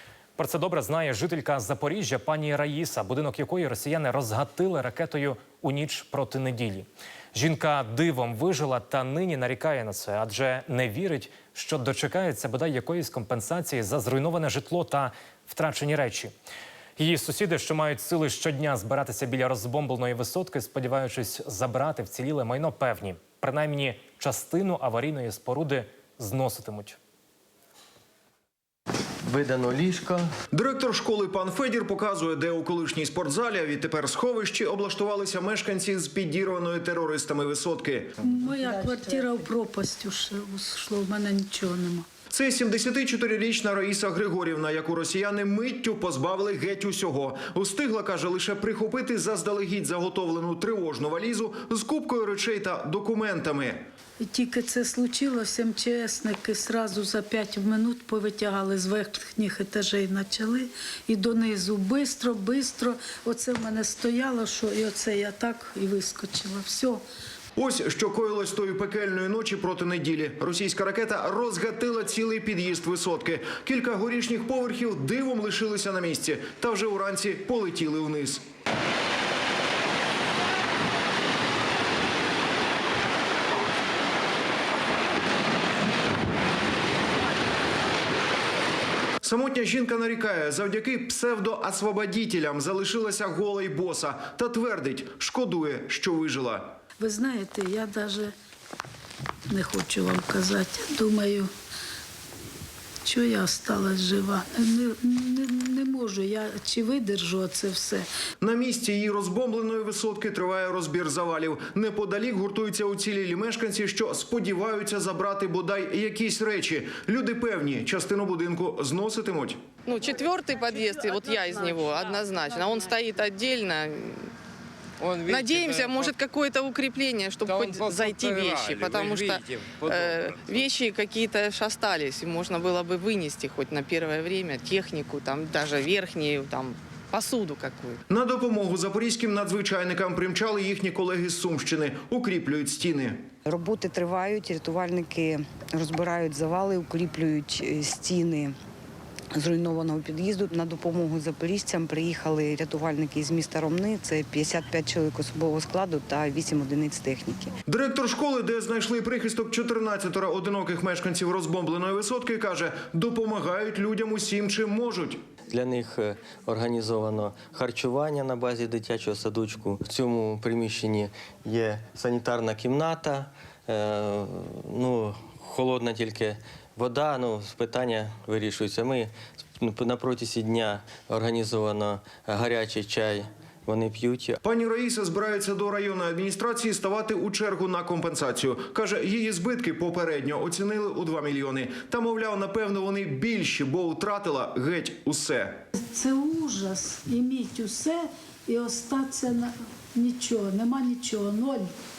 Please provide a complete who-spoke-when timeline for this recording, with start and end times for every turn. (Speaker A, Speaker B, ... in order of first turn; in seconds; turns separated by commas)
Speaker A: 0.4-16.3, Speaker A: 17.0-27.0, Speaker B: 29.2-30.3, Speaker C: 30.5-38.2, Speaker D: 38.2-42.0, Speaker E: 38.6-39.4, Speaker C: 42.3-53.9, Speaker D: 54.2-67.0, Speaker C: 67.5-78.4, Speaker C: 89.2-96.8, Speaker D: 97.0-98.3, Speaker D: 99.5-101.5, Speaker D: 103.0-108.0, Speaker C: 108.4-119.6, Speaker F: 119.8-124.3, Speaker G: 125.0-126.2, Speaker F: 125.2-138.0, Speaker G: 127.5-130.7, Speaker C: 138.1-143.2, Speaker E: 143.4-148.6, Speaker E: 149.3-157.5, Speaker C: 157.7-165.2, Speaker B: 165.5-184.4, Speaker C: 184.4-195.6, Speaker D: 195.8-201.7